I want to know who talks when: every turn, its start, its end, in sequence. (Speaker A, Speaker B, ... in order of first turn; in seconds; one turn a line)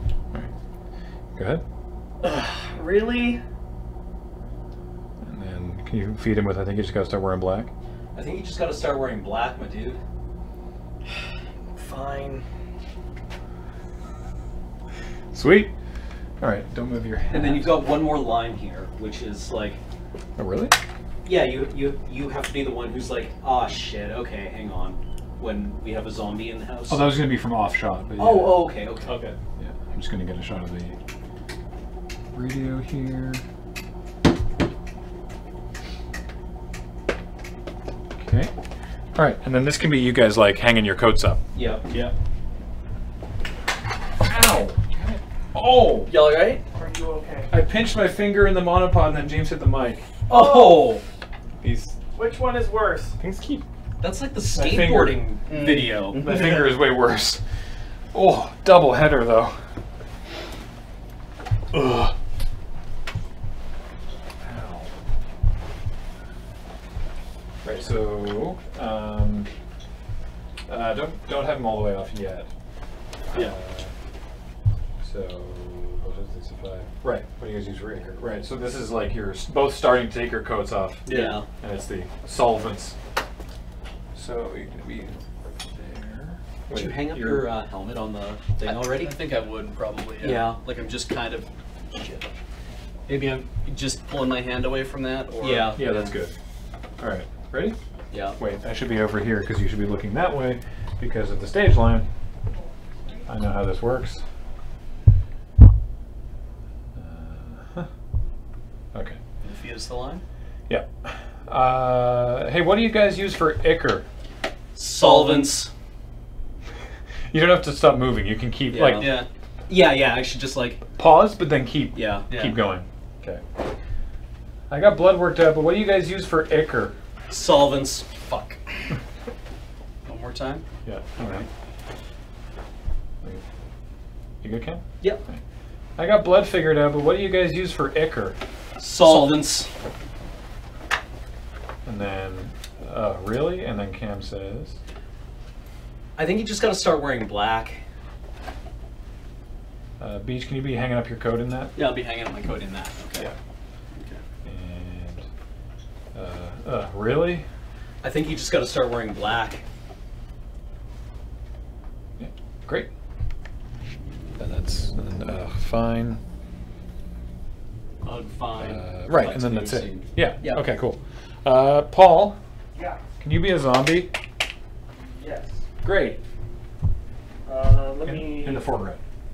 Speaker A: 1.3-1.6
Speaker B: 2.2-3.4
Speaker A: 5.2-7.7
Speaker C: 8.1-10.0
Speaker B: 11.7-12.4
Speaker A: 15.3-15.7
Speaker A: 16.4-17.9
Speaker C: 17.3-19.8
Speaker A: 20.4-20.8
Speaker C: 21.2-27.4
Speaker A: 26.9-31.0
Speaker C: 28.2-29.4
Speaker A: 32.3-33.4
Speaker A: 38.2-38.5
Speaker A: 39.1-41.4
Speaker C: 41.5-42.1
Speaker A: 44.2-46.1
Speaker D: 46.0-46.6
Speaker B: 46.7-47.5
Speaker A: 47.5-50.1
Speaker C: 50.3-51.0
Speaker B: 50.3-50.9
Speaker A: 51.6-52.0
Speaker B: 52.1-53.2
Speaker A: 53.2-53.6
Speaker C: 54.0-56.4
Speaker A: 54.5-55.5
Speaker D: 55.5-56.6
Speaker A: 56.1-57.4
Speaker A: 58.1-59.6
Speaker A: 64.4-64.9
Speaker A: 67.6-69.5
Speaker A: 70.7-72.5
Speaker A: 73.3-73.9
Speaker A: 75.0-83.0
Speaker C: 81.0-81.5
Speaker A: 84.1-85.2
Speaker A: 85.7-87.5
Speaker C: 86.7-89.2
Speaker D: 88.6-92.3
Speaker C: 90.2-90.6
Speaker D: 93.1-95.8
Speaker C: 95.4-96.1
Speaker A: 95.7-96.3
Speaker A: 97.0-97.8
Speaker C: 98.1-98.4
Speaker A: 98.3-102.1
Speaker A: 103.2-104.2
Speaker A: 106.9-107.9
Speaker A: 108.9-109.2
Speaker D: 109.4-110.2
Speaker A: 110.7-114.0
Speaker D: 114.8-115.7
Speaker C: 114.8-115.7
Speaker A: 117.3-119.1
Speaker C: 118.7-120.9
Speaker D: 119.0-119.3
Speaker A: 121.0-123.4
Speaker C: 121.9-122.3
Speaker D: 122.3-122.6
Speaker A: 124.7-127.0
Speaker C: 127.3-128.5
Speaker D: 130.0-130.6
Speaker A: 130.8-131.5
Speaker A: 134.4-135.4
Speaker A: 136.0-138.4
Speaker C: 138.8-139.7
Speaker D: 139.0-139.4
Speaker A: 141.8-144.8
Speaker C: 146.2-147.8
Speaker A: 150.0-151.7
Speaker D: 151.7-153.2
Speaker A: 154.4-155.2
Speaker A: 156.1-157.4
Speaker C: 158.0-159.6
Speaker A: 162.2-162.9
Speaker A: 164.4-166.2
Speaker C: 168.0-170.6
Speaker D: 168.4-168.8
Speaker A: 168.6-172.4
Speaker E: 172.7-173.0
Speaker A: 173.2-174.1
Speaker E: 175.2-175.6
Speaker A: 175.8-176.2
Speaker E: 177.4-178.7
Speaker A: 178.0-179.0